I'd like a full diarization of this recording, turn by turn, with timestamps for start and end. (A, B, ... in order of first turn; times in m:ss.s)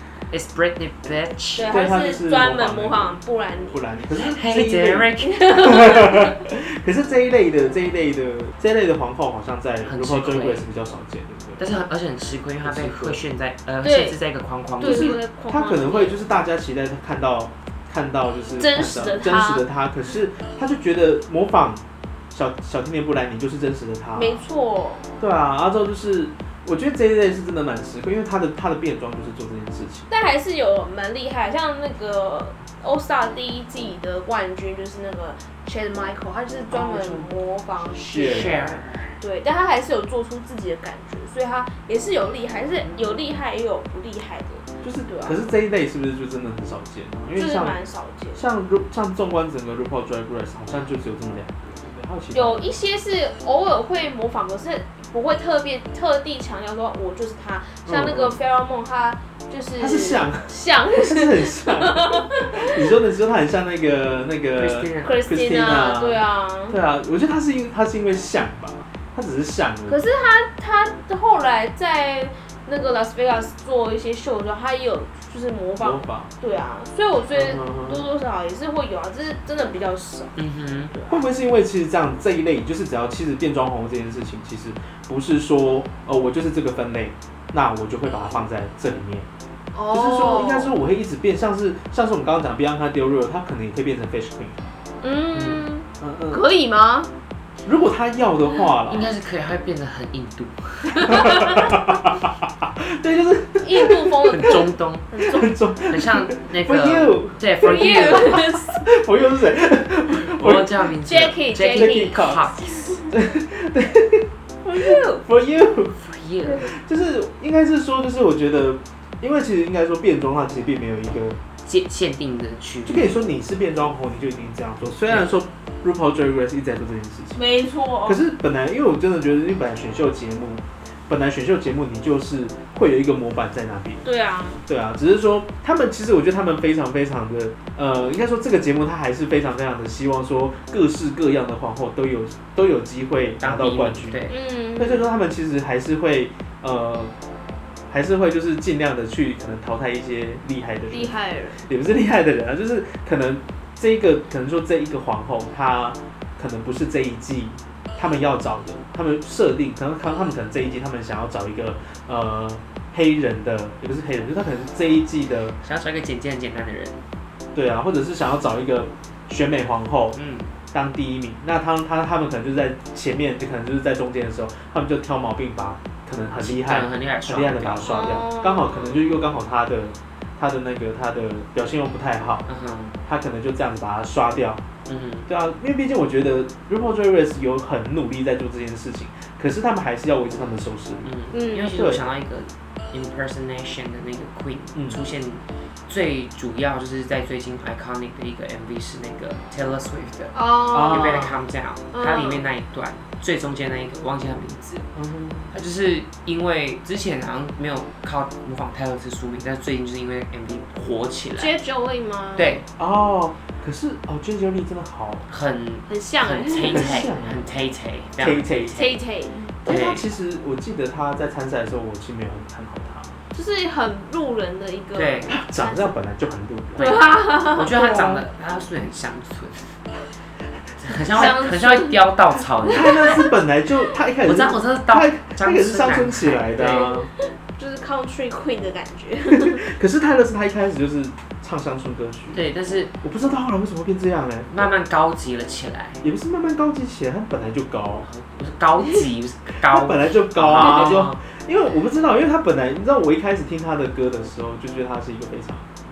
0:00.3-0:01.8 A
0:01.6-0:03.8 B
0:01.7-0:03.2 C
0:03.7-0:11.6 C
0:04.1-0:05.5 A
0:05.2-0:06.4 B
0:09.8-0:10.7 A
0:11.6-0:15.2 A
0:12.6-0:13.2 C
0:13.8-0:14.2 B
0:14.8-0:16.2 B
0:14.8-0:24.4 C
0:18.6-0:19.6 B
0:24.2-0:25.1 B
0:25.2-0:30.1 C
0:30.1-0:45.4 B
0:36.7-0:37.3 A
0:37.9-0:39.2 A
0:38.1-0:38.7 C
0:42.8-0:43.2 A
0:44.8-0:47.8 C
0:47.4-0:48.4 B
0:48.3-0:52.7 C
0:52.3-1:02.9 B
0:57.8-0:58.4 C
0:59.8-1:10.0 C
1:04.5-1:05.2 A
1:05.0-1:06.8 B
1:09.9-1:20.4 B
1:15.8-1:16.3 C
1:17.3-1:18.0 C
1:20.4-1:20.9 A
1:20.9-1:21.2 B
1:21.1-1:29.3 C
1:29.7-1:30.7 B
1:29.9-1:34.7 C
1:35.0-1:37.1 B
1:35.3-1:35.7 A
1:36.0-1:36.4 C
1:37.6-1:39.1 C
1:38.8-1:41.4 A
1:41.0-1:41.7 B
1:41.1-1:44.6 C
1:43.6-1:45.5 B
1:44.3-1:45.1 A
1:45.2-1:50.9 C
1:45.9-1:48.5 A
1:47.6-1:48.8 B
1:50.2-1:53.0 A
1:51.0-1:53.1 B
1:51.7-1:52.4 C
1:53.1-1:56.0 C
1:54.6-1:55.2 B
1:56.0-1:56.7 A
1:56.7-2:01.4 C
2:01.6-2:03.3 A
2:02.8-2:07.4 C
2:05.0-2:05.3 A
2:07.3-2:08.2 B
2:08.0-2:14.0 C
2:14.0-2:14.6 B
2:14.6-2:24.2 C
2:23.4-2:24.4 A
2:24.3-2:25.1 B
2:24.8-2:27.1 C
2:27.9-2:45.6 C
2:30.9-2:31.6 B
2:45.6-2:47.0 A
2:47.5-2:50.2 C
2:50.1-2:50.5 A
2:50.7-3:02.5 C
2:56.3-2:58.2 A
2:57.8-2:59.1 B
3:02.5-3:03.0 A
3:03.0-3:04.6 C
3:04.8-3:05.3 A
3:05.3-3:12.0 C
3:11.0-3:24.9 A
3:11.3-3:11.8 B
3:14.7-3:15.0 C
3:20.3-3:21.3 B
3:20.7-3:21.4 C
3:21.9-3:22.5 B
3:24.9-3:25.5 C
3:25.5-3:31.5 A
3:31.4-3:32.6 B
3:32.4-3:32.6 A
3:32.8-3:35.3 C
3:35.3-3:39.0 A
3:35.9-3:37.1 B
3:36.6-3:37.5 C
3:38.2-3:38.8 C
3:38.7-3:39.6 B
3:39.6-3:40.1 A
3:39.6-3:43.2 C
3:43.3-3:45.9 B
3:44.9-3:45.3 A
3:45.3-3:47.1 C
3:46.8-3:47.9 B
3:46.8-3:49.8 A
3:47.7-3:48.2 C
3:50.8-3:53.3 A
3:51.1-3:52.0 B
3:52.6-3:53.3 B
3:52.6-3:57.1 C
3:54.2-3:57.0 A
3:57.6-3:59.6 B
3:59.3-4:02.4 C
4:02.3-4:03.0 A
4:03.0-4:04.7 C
4:04.5-4:06.0 A
4:06.0-4:08.1 C
4:08.0-4:11.2 A
4:09.6-4:15.7 C